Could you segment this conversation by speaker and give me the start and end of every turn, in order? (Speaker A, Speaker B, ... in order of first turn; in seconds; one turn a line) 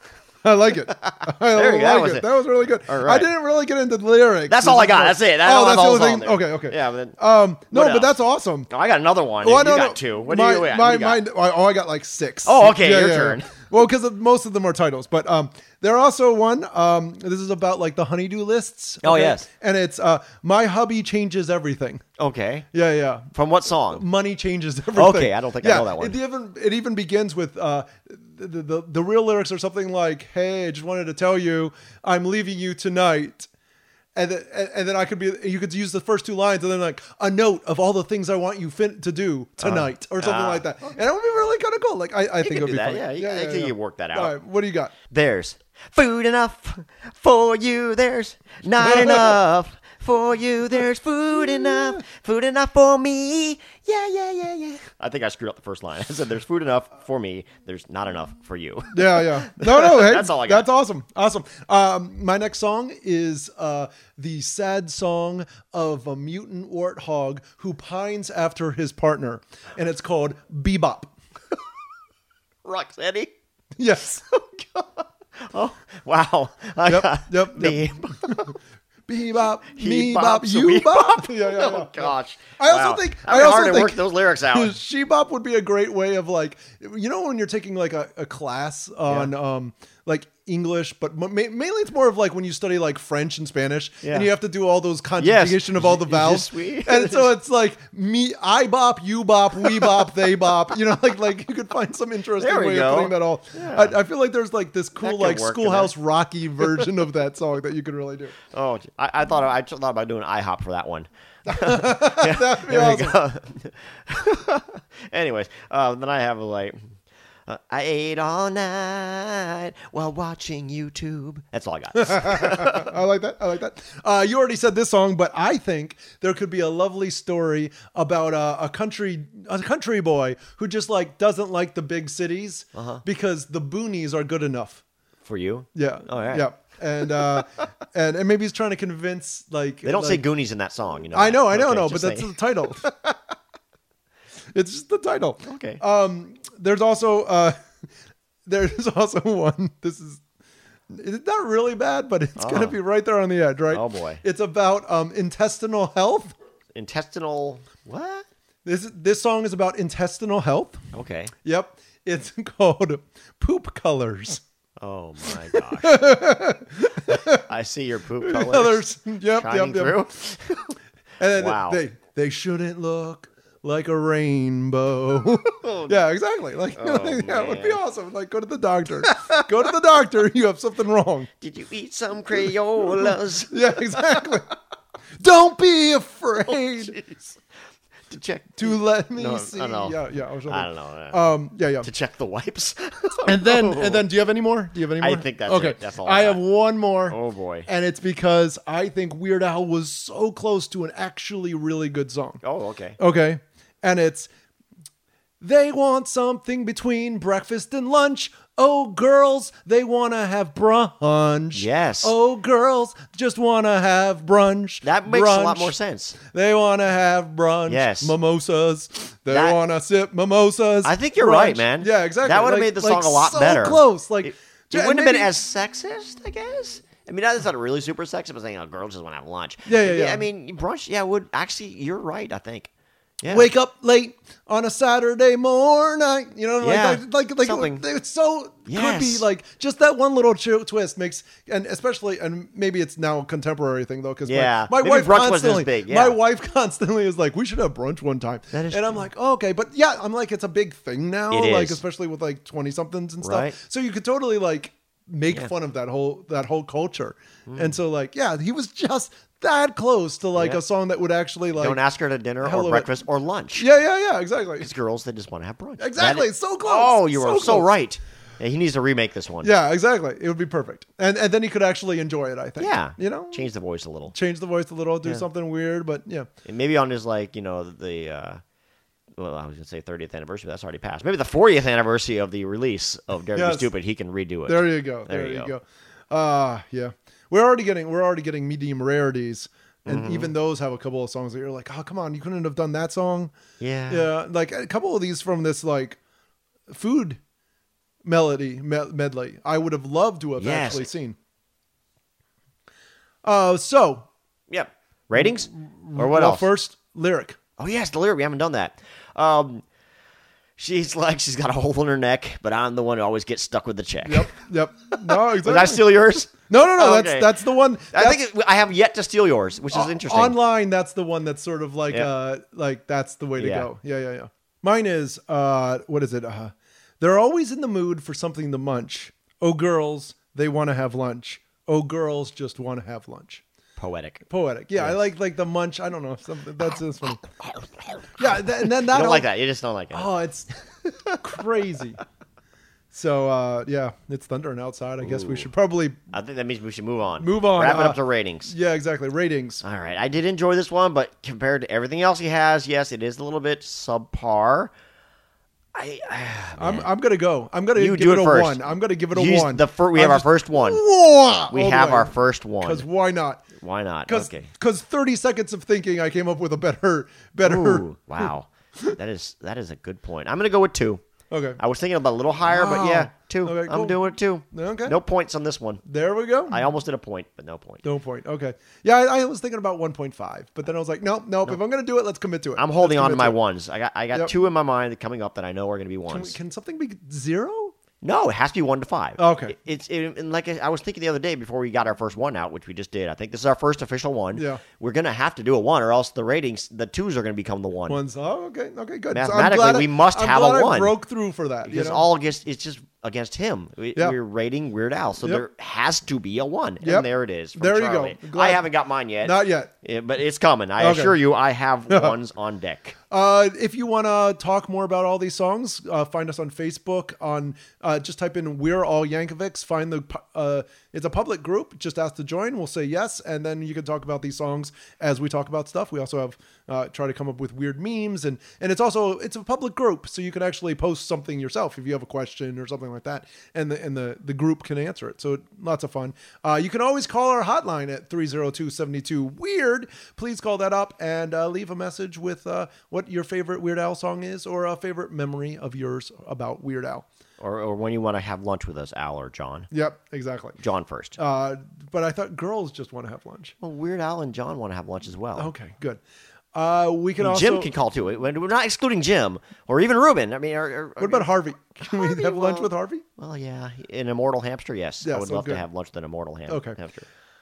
Speaker A: 0.4-8.7
Speaker B: 1.0-3.3
Speaker B: 4.5-7.2
Speaker B: 7.7-8.1
Speaker B: 8.7-11.2
Speaker A: 9.4-22.0
Speaker B: 12.4-13.5
Speaker B: 19.0-19.5
Speaker B: 22.2-22.7
Speaker A: 22.7-23.3
Speaker B: 23.3-24.0
Speaker A: 23.9-33.5
Speaker B: 24.9-26.2
Speaker A: 34.1-44.9
Speaker B: 39.6-40.6
Speaker B: 42.4-44.4
Speaker B: 45.1-60.7
Speaker A: 48.8-49.4
Speaker A: 51.4-52.0
Speaker A: 58.9-71.1
Speaker B: 72.7-73.3
Speaker A: 73.8-74.2
Speaker B: 74.3-78.6
Speaker A: 76.9-78.5
Speaker A: 79.1-108.3
Speaker B: 79.7-84.8
Speaker B: 89.1-89.3
Speaker B: 94.0-94.3
Speaker B: 95.2-97.3
Speaker B: 102.4-104.0
Speaker B: 105.0-105.9
Speaker B: 108.5-116.9
Speaker A: 111.5-113.2
Speaker B: 117.5-122.9
Speaker A: 122.0-134.8
Speaker B: 132.8-133.0
Speaker B: 135.2-136.5
Speaker A: 135.8-140.2
Speaker B: 137.2-137.7
Speaker B: 139.8-143.2
Speaker A: 141.1-142.9
Speaker A: 144.5-147.6
Speaker B: 145.4-145.8
Speaker A: 148.5-150.2
Speaker A: 150.9-156.3
Speaker B: 152.4-152.8
Speaker B: 153.7-154.2
Speaker B: 156.8-158.3
Speaker A: 158.7-160.8
Speaker B: 160.9-161.3
Speaker A: 161.4-164.4
Speaker B: 164.8-166.0
Speaker A: 165.5-167.5
Speaker B: 167.1-170.8
Speaker A: 168.2-170.0
Speaker A: 171.2-181.3
Speaker B: 171.3-171.8
Speaker B: 175.6-176.0
Speaker B: 176.8-177.8
Speaker B: 179.1-179.5
Speaker B: 181.4-184.2
Speaker A: 182.9-184.5
Speaker A: 185.2-187.0
Speaker B: 186.5-187.4
Speaker B: 188.1-191.2
Speaker A: 188.6-191.9
Speaker B: 191.8-194.1
Speaker A: 193.3-202.4
Speaker B: 195.0-196.4
Speaker B: 197.1-197.7
Speaker B: 202.4-203.0
Speaker A: 203.0-204.3
Speaker A: 205.4-225.3
Speaker B: 211.5-212.1
Speaker B: 214.8-216.2
Speaker B: 217.7-218.1
Speaker B: 219.3-219.6
Speaker B: 220.8-232.7
Speaker A: 229.7-230.2
Speaker B: 233.2-233.5
Speaker A: 233.3-261.8
Speaker B: 236.6-237.8
Speaker B: 238.7-239.2
Speaker B: 244.3-246.2
Speaker B: 248.5-249.1
Speaker B: 251.3-251.8
Speaker B: 253.2-253.6
Speaker B: 257.5-257.8
Speaker B: 261.6-263.7
Speaker A: 262.4-262.9
Speaker A: 263.6-264.7
Speaker B: 264.6-269.5
Speaker A: 265.8-267.7
Speaker A: 269.4-273.5
Speaker B: 272.6-274.1
Speaker A: 274.1-276.3
Speaker B: 276.4-278.4
Speaker B: 279.2-285.5
Speaker A: 283.4-283.7
Speaker A: 284.5-293.3
Speaker B: 289.9-290.3
Speaker B: 293.6-294.1
Speaker A: 293.9-296.0
Speaker A: 296.7-297.2
Speaker A: 298.0-301.2
Speaker B: 300.4-300.9
Speaker A: 303.2-304.1
Speaker B: 304.5-306.5
Speaker A: 305.2-307.4
Speaker B: 307.6-309.6
Speaker B: 310.6-314.3
Speaker A: 314.1-315.8
Speaker B: 314.9-317.4
Speaker A: 316.5-318.2
Speaker B: 317.9-320.4
Speaker A: 319.7-333.4
Speaker B: 323.4-323.7
Speaker B: 333.8-334.2
Speaker A: 334.3-337.3
Speaker B: 337.4-340.1
Speaker A: 338.2-339.3
Speaker A: 339.9-342.0
Speaker A: 342.9-346.0
Speaker B: 345.0-345.5
Speaker B: 346.1-348.5
Speaker A: 347.2-349.6
Speaker B: 349.6-354.7
Speaker B: 355.7-356.9
Speaker A: 356.6-363.5
Speaker B: 357.8-358.6
Speaker B: 359.1-360.8
Speaker B: 361.5-362.9
Speaker B: 363.6-364.5
Speaker A: 364.1-368.3
Speaker B: 367.4-371.0
Speaker A: 371.3-371.6
Speaker B: 371.6-375.8
Speaker A: 372.4-374.0
Speaker A: 374.5-375.0
Speaker A: 375.8-376.7
Speaker B: 376.5-377.8
Speaker A: 377.8-383.4
Speaker B: 382.6-386.4
Speaker A: 386.1-387.7
Speaker B: 388.0-398.0
Speaker A: 389.2-389.6
Speaker A: 394.3-394.6
Speaker A: 397.9-402.1
Speaker B: 399.1-400.9
Speaker B: 401.6-413.0
Speaker A: 406.8-408.7
Speaker A: 409.2-409.7
Speaker A: 410.8-411.2
Speaker A: 411.9-412.2
Speaker A: 413.1-447.1
Speaker B: 447.4-449.7
Speaker A: 449.7-450.6
Speaker B: 450.6-451.2
Speaker A: 451.2-453.5
Speaker B: 453.6-455.5
Speaker A: 455.4-456.0
Speaker A: 456.5-457.7
Speaker B: 457.2-467.1
Speaker A: 461.0-463.1
Speaker A: 465.0-465.6
Speaker A: 466.5-466.8